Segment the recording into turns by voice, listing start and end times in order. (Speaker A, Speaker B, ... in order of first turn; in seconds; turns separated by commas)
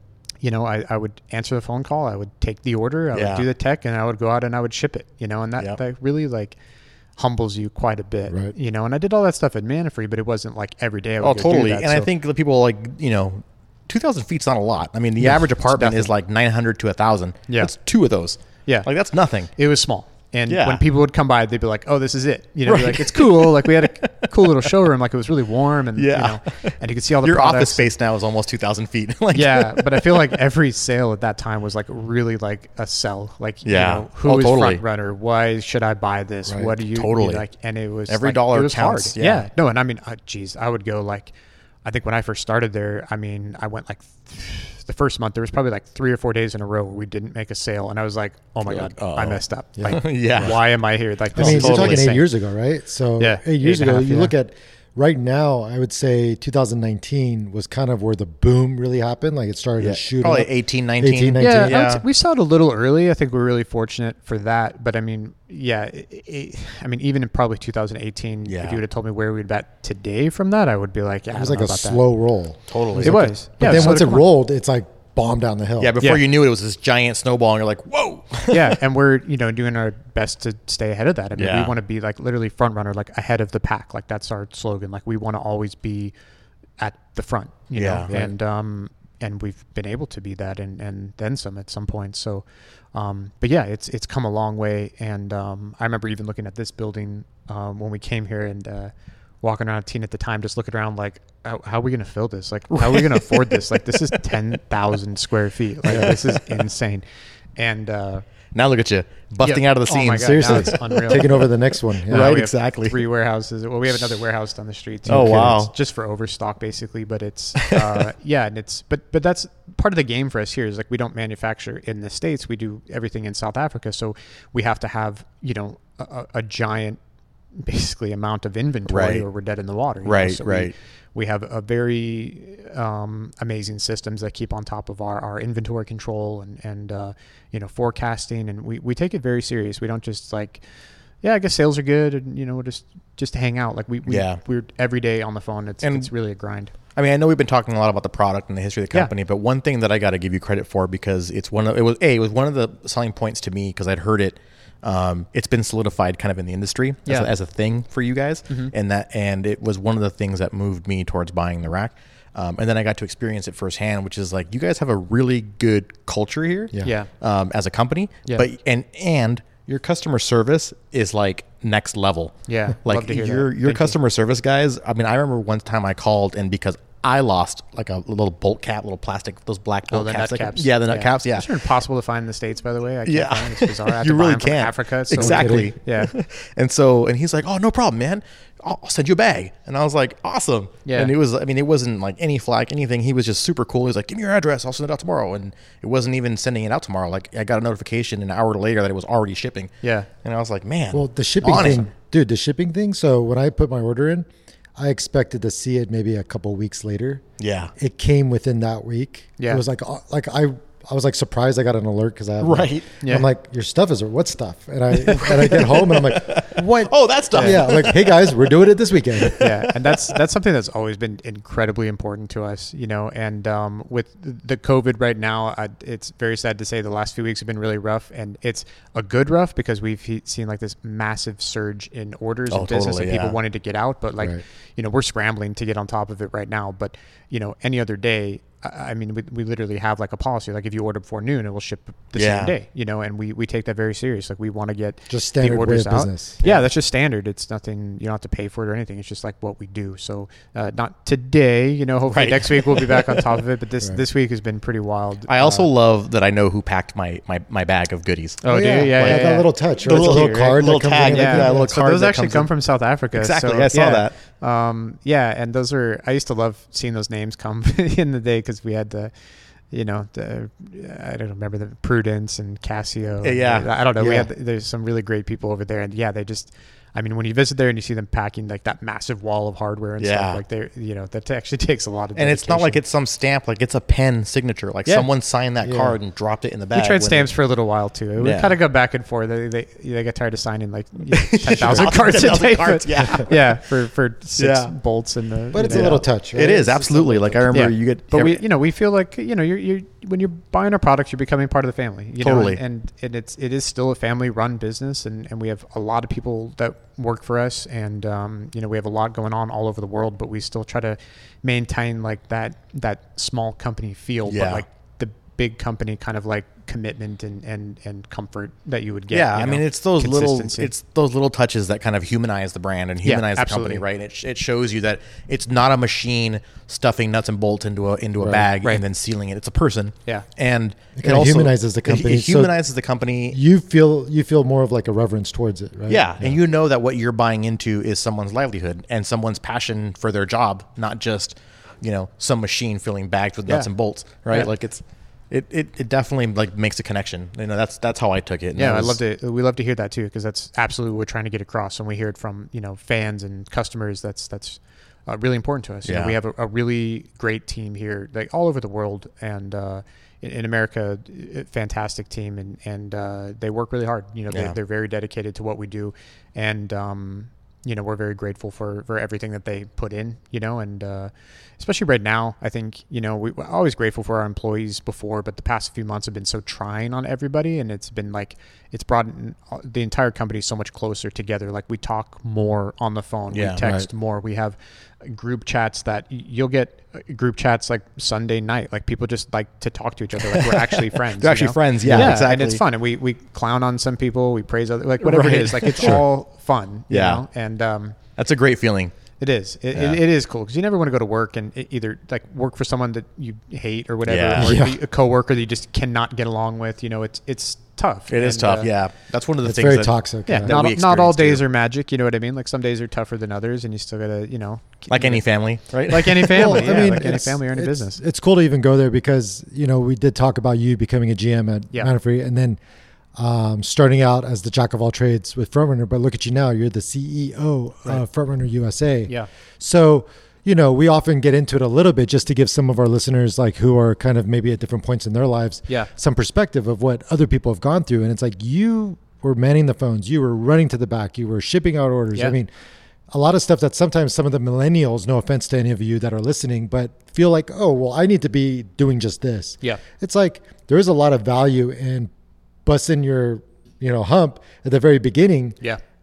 Speaker A: 0.4-6.6, Speaker B: 3.1-3.5, Speaker A: 7.2-12.1, Speaker C: 8.3-8.5, Speaker B: 11.2-19.5, Speaker A: 15.2-16.1, Speaker A: 19.6-27.9, Speaker B: 20.5-20.8, Speaker B: 22.7-24.8, Speaker B: 26.0-30.3, Speaker A: 29.3-41.3, Speaker B: 33.7-34.8, Speaker B: 36.8-37.4, Speaker B: 38.1-39.5, Speaker A: 41.9-52.3, Speaker B: 48.7-50.6, Speaker C: 49.8-50.5, Speaker B: 51.3-52.1, Speaker C: 51.4-61.8, Speaker A: 53.2-54.3, Speaker B: 59.8-62.0, Speaker A: 61.4-72.0, Speaker B: 68.5-68.8, Speaker C: 71.3-76.0, Speaker B: 72.7-74.0, Speaker A: 73.0-74.3, Speaker B: 75.8-78.8, Speaker A: 78.5-86.1, Speaker B: 81.4-81.7, Speaker A: 86.8-107.0, Speaker B: 87.8-88.1, Speaker B: 102.7-103.6, Speaker B: 105.9-106.6, Speaker A: 107.6-108.3, Speaker B: 108.5-111.5, Speaker A: 109.4-111.5, Speaker C: 110.2-112.4, Speaker B: 112.0-113.0, Speaker A: 112.1-127.0, Speaker B: 115.1-115.7, Speaker C: 115.1-115.5, Speaker B: 117.6-117.8, Speaker A: 127.5-140.6, Speaker B: 128.9-129.2, Speaker B: 130.0-130.7, Speaker A: 141.2-146.7, Speaker B: 144.1-144.4, Speaker B: 145.8-146.1, Speaker B: 146.9-181.6, Speaker A: 166.8-167.1, Speaker A: 172.5-174.0, Speaker A: 179.9-186.1, Speaker B: 183.1-201.9, Speaker C: 185.2-185.7, Speaker A: 190.8-191.1, Speaker A: 199.8-200.1, Speaker C: 200.9-207.2, Speaker B: 207.4-207.7, Speaker C: 207.8-216.7, Speaker A: 209.4-209.6, Speaker B: 212.4-212.9, Speaker A: 213.0-213.3, Speaker B: 215.0-218.4, Speaker A: 216.5-217.7, Speaker C: 217.4-219.5, Speaker B: 219.2-220.0, Speaker A: 219.3-255.7, Speaker B: 232.5-233.4, Speaker B: 242.2-242.5, Speaker C: 245.1-246.4, Speaker B: 246.4-246.7, Speaker B: 252.1-253.3, Speaker B: 255.3-259.3, Speaker A: 258.4-269.1, Speaker C: 258.5-261.8, Speaker B: 259.8-262.5, Speaker B: 263.1-264.1, Speaker A: 269.7-282.8, Speaker B: 273.2-274.3, Speaker B: 280.0-280.4, Speaker B: 282.2-287.3, Speaker C: 285.6-286.0, Speaker A: 286.7-296.0, Speaker B: 288.2-288.6, Speaker B: 291.1-293.6, Speaker C: 291.6-291.9, Speaker B: 294.4-294.7, Speaker C: 295.5-297.6, Speaker B: 295.6-298.4, Speaker A: 297.5-320.7, Speaker B: 302.2-302.6, Speaker B: 314.3-314.6, Speaker B: 319.1-333.4, Speaker A: 323.0-323.8, Speaker C: 328.2-328.5, Speaker C: 331.0-332.5, Speaker C: 333.3-336.4, Speaker B: 335.9-349.0, Speaker A: 348.6-398.0, Speaker B: 355.9-356.2, Speaker B: 364.3-364.6, Speaker B: 383.3-383.7, Speaker C: 383.6-383.9, Speaker B: 390.3-392.6, Speaker C: 391.8-392.2, Speaker B: 395.0-396.1, Speaker B: 396.9-397.2, Speaker B: 398.2-398.9, Speaker A: 399.2-408.7, Speaker B: 399.7-400.0, Speaker B: 404.1-404.6, Speaker C: 404.4-404.8, Speaker B: 408.1-411.4, Speaker C: 409.4-410.5, Speaker A: 410.3-415.2, Speaker B: 414.9-416.8, Speaker A: 415.9-418.0, Speaker C: 416.3-422.6, Speaker C: 423.2-442.5, Speaker C: 443.1-452.1, Speaker C: 452.6-455.6